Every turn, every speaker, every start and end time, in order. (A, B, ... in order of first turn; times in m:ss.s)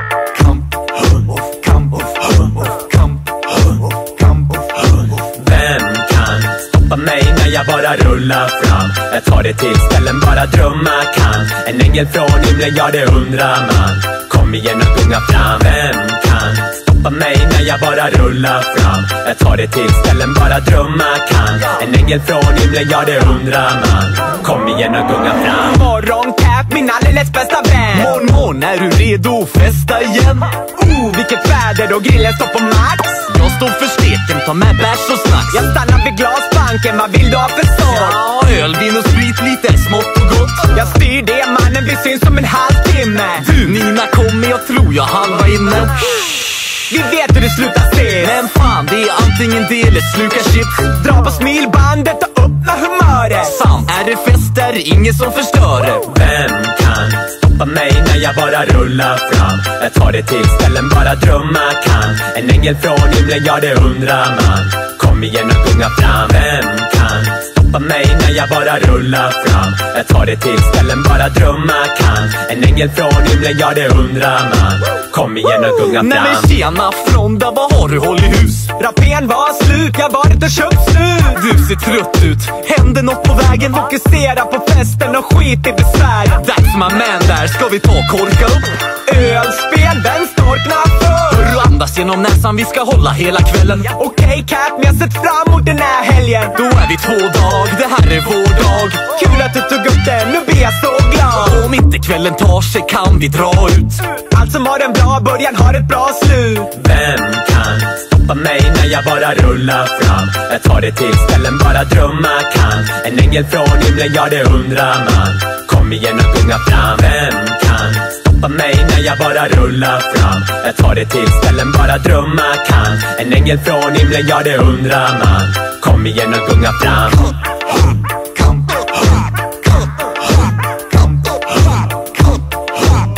0:01.2-0:03.2 A
0:04.0-0:04.6 A
0:05.3-0:25.8 B
0:25.6-0:28.2 C
0:27.9-0:30.5 A
0:30.6-0:33.3 C
0:33.3-0:35.7 A
0:35.5-0:38.2 C
0:37.8-0:40.7 A
0:40.7-0:43.6 C
0:43.4-0:46.1 A
0:46.9-0:48.4 C
0:48.2-0:50.9 A
0:50.9-0:53.6 C
0:53.4-0:56.1 A
0:56.1-1:16.5 B
1:15.7-1:18.7 A
1:18.8-1:21.4 C
1:21.3-1:23.8 A
1:23.7-1:26.4 C
1:26.4-1:28.8 A
1:29.1-1:31.5 C
1:31.3-1:33.9 A
1:33.8-1:36.6 C
1:36.5-1:39.1 A
1:39.1-1:41.7 C
1:41.3-1:44.0 A
1:44.1-1:46.7 C
1:46.7-2:07.3 B